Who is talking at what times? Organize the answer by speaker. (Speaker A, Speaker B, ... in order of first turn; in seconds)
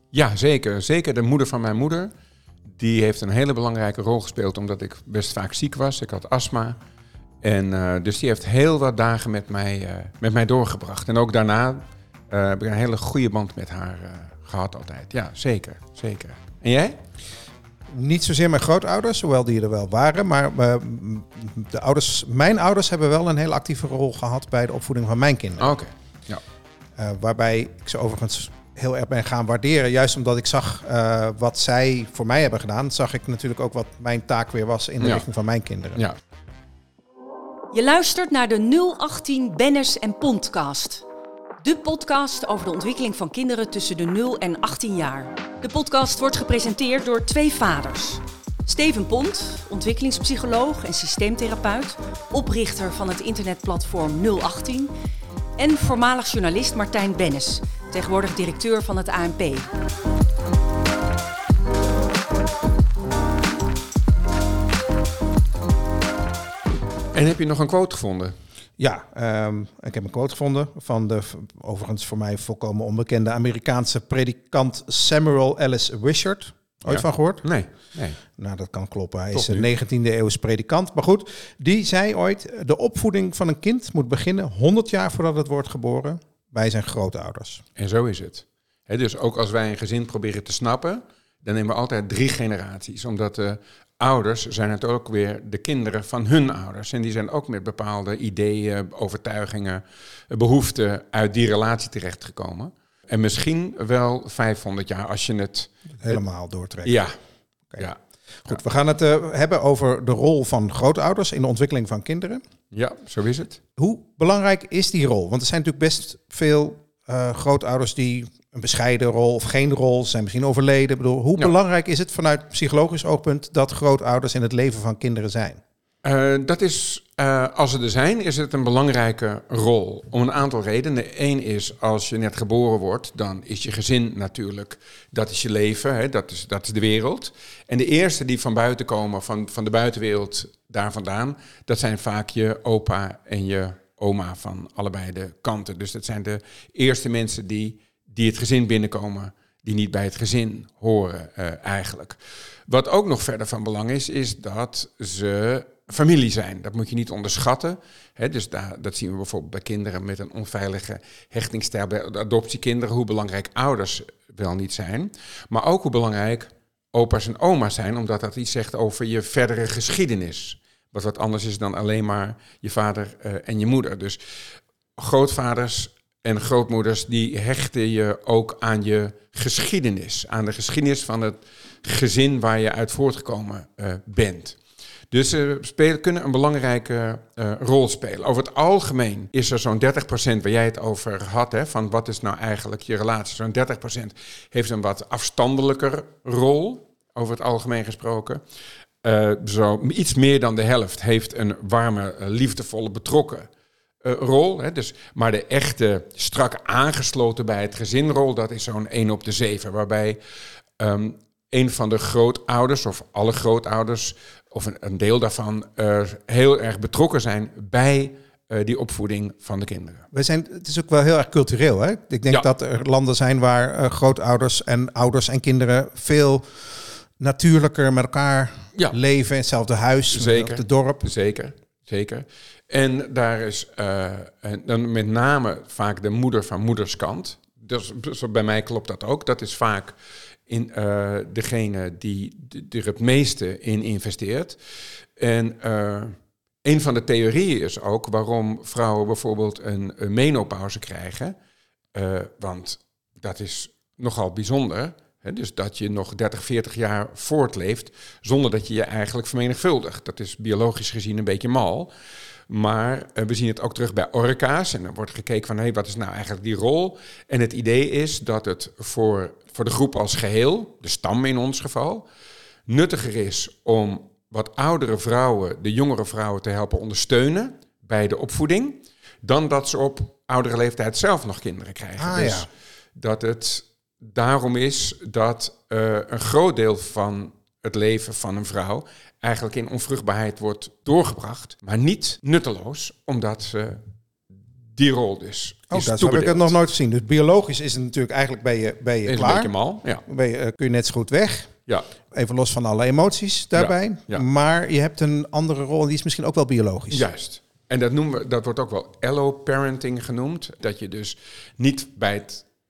Speaker A: 0.1-2.1, 2.7-6.8, 7.4-17.0, 25.6-26.4, 67.1-68.3, 76.9-78.2, 79.3-79.7, 87.8-106.2, 106.8-107.2, 112.7-113.6, 126.0-174.2, 175.0-184.6, 185.1-198.4, 199.0-203.5, 204.0-210.2, 210.8-220.0, 230.1-239.9, 240.5-244.6, 245.2-251.3, 251.9-261.9, 262.5-272.0, 272.7-293.8, 294.8-296.5, 299.1-300.0, 303.6-304.2, 306.9-312.4
Speaker B: 17.9-25.7, 27.0-36.0, 68.8-77.5, 78.3-87.6, 106.0-106.9, 108.4-112.4, 113.8-125.6, 220.1-231.1, 282.0-282.5, 295.7-299.5, 300.0-301.5, 302.1-307.0
Speaker C: 37.7-41.0, 41.6-54.9, 55.6-59.7